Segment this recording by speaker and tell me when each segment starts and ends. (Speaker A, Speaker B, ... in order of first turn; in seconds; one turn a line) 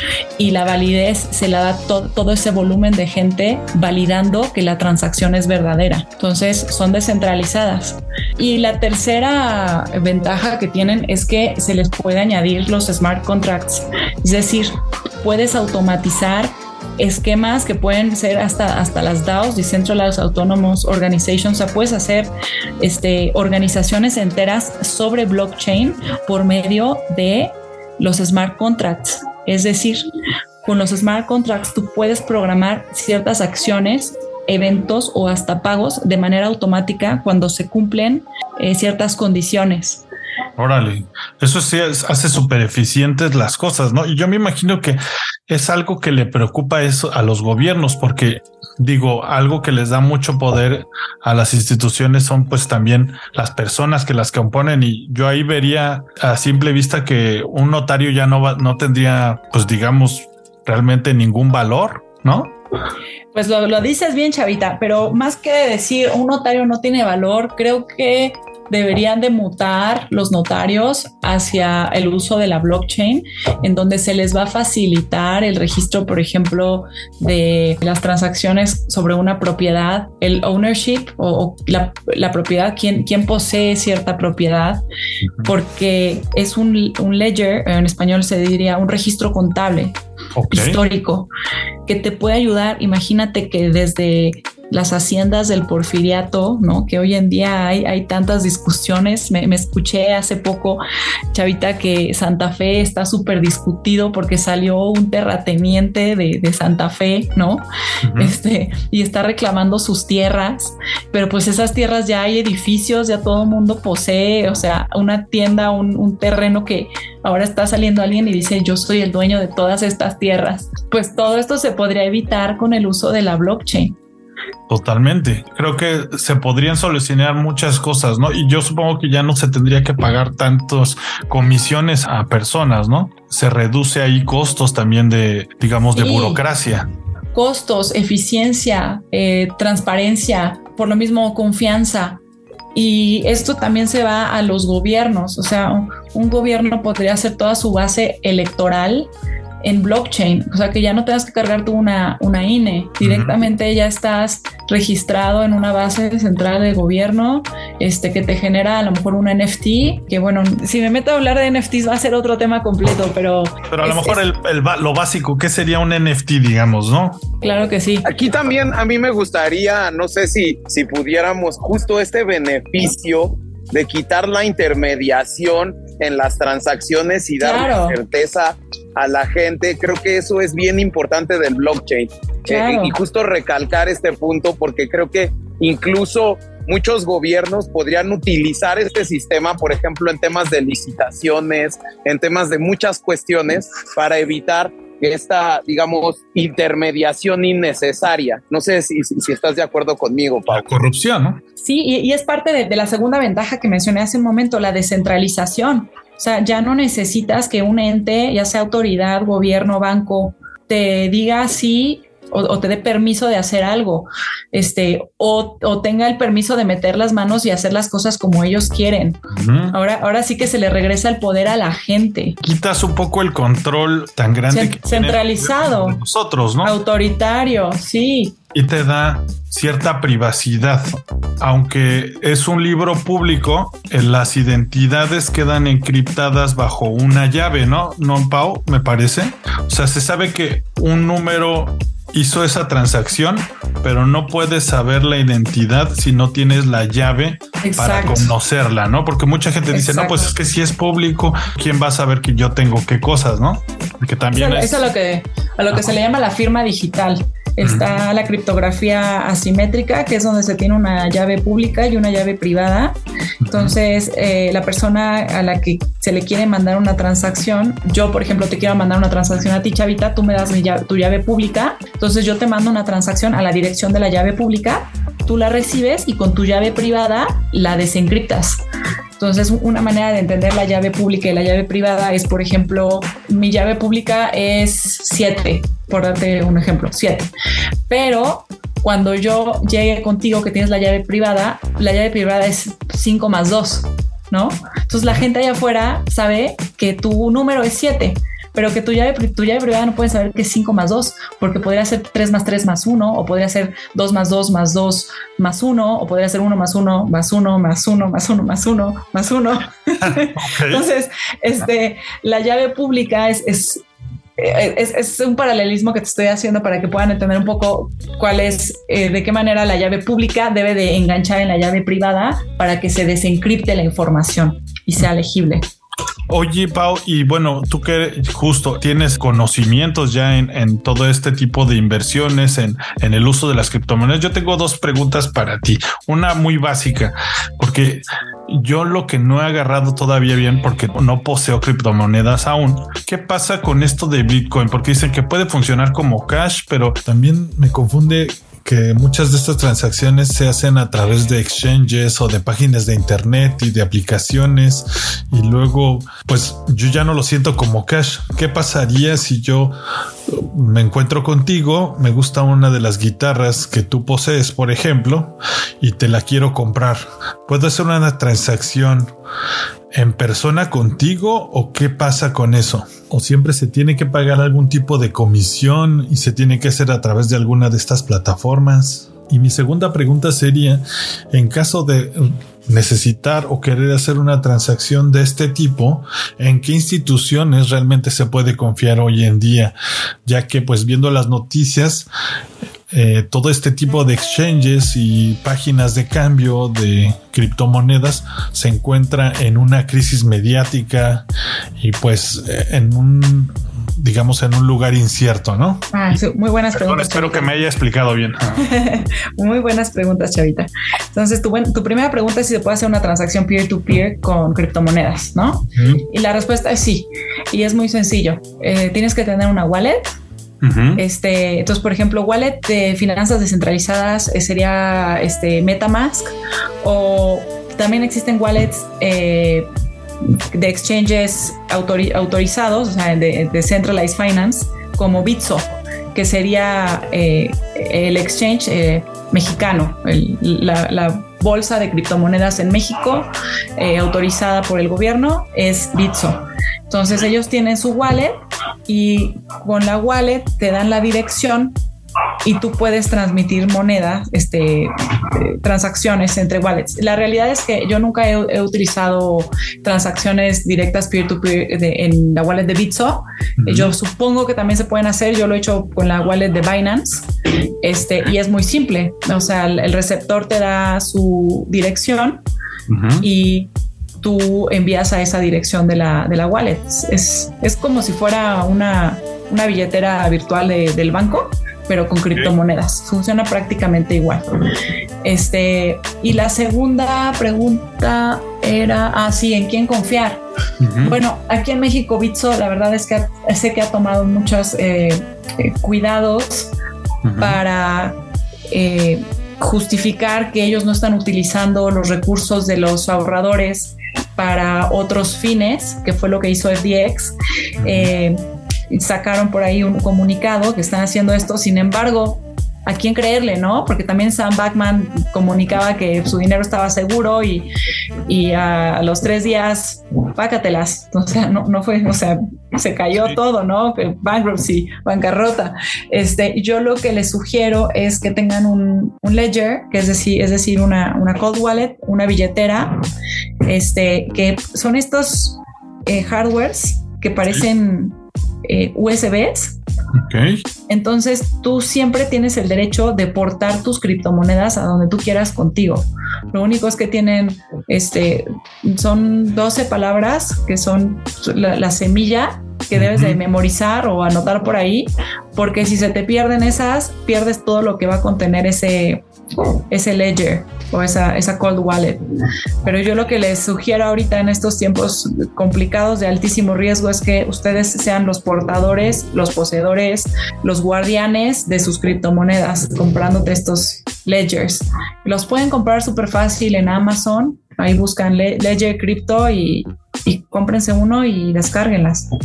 Speaker A: 0.4-30.1
Speaker A: 30.6-40.0
Speaker B: 40.6-62.6
Speaker A: 63.3-84.8
Speaker B: 85.2-85.5
Speaker A: 85.4-90.0
Speaker B: 90.3-90.8
Speaker A: 90.5-91.3
Speaker A: 91.9-107.7
Speaker B: 108.0-108.4
Speaker A: 108.2-124.0
Speaker B: 124.7-136.9
Speaker A: 135.9-136.4
Speaker A: 137.3-142.2
Speaker A: 142.7-149.1
Speaker A: 149.6-164.2
Speaker B: 153.0-153.3
Speaker B: 163.7-167.2
Speaker A: 167.4-168.1
Speaker C: 168.1-200.7
Speaker A: 177.4-178.0
Speaker A: 182.5-183.0
Speaker B: 200.5-201.4
Speaker A: 201.6-222.4
Speaker B: 219.3-219.8
Speaker B: 222.4-226.8
Speaker A: 224.5-226.0
Speaker A: 226.6-228.4
Speaker B: 228.5-254.9
Speaker A: 247.6-248.3
Speaker A: 249.7-250.3
Speaker A: 254.3-262.9
Speaker B: 257.6-257.9
Speaker B: 263.4-263.8
Speaker A: 263.5-278.6
Speaker A: 279.2-287.3
Speaker A: 287.9-313.8
Speaker B: 294.9-295.2
Speaker B: 310.0-310.9
Speaker A: 314.4-325.7
Speaker B: 326.3-359.7
Speaker B: 360.3-369.1
Speaker B: 369.9-389.7
Speaker B: 390.2-392.1
Speaker B: 392.9-401.2
Speaker B: 401.8-405.9
Speaker A: 405.9-407.5
Speaker B: 406.7-408.7
Speaker A: 408.6-420.1
Speaker B: 415.8-416.0
Speaker B: 420.6-421.0
Speaker A: 421.0-429.7
Speaker A: 430.2-448.4
Speaker A: 448.9-451.7
Speaker A: 452.4-467.3
Speaker B: 463.6-463.9
Speaker A: 467.8-472.4
Speaker B: 472.9-473.3
Speaker A: 473.2-484.5
Speaker A: 485.2-490.4
Speaker B: 490.8-491.2
Speaker A: 491.0-496.7
Speaker B: 497.2-497.6
Speaker A: 497.4-498.2
Speaker A: 498.7-517.7
Speaker B: 507.8-508.1
Speaker A: 518.3-533.0
Speaker A: 533.7-539.8
Speaker B: 540.1-540.6
Speaker A: 540.9-559.2
Speaker B: 553.0-553.4
Speaker A: 559.9-562.2
Speaker A: 562.8-582.3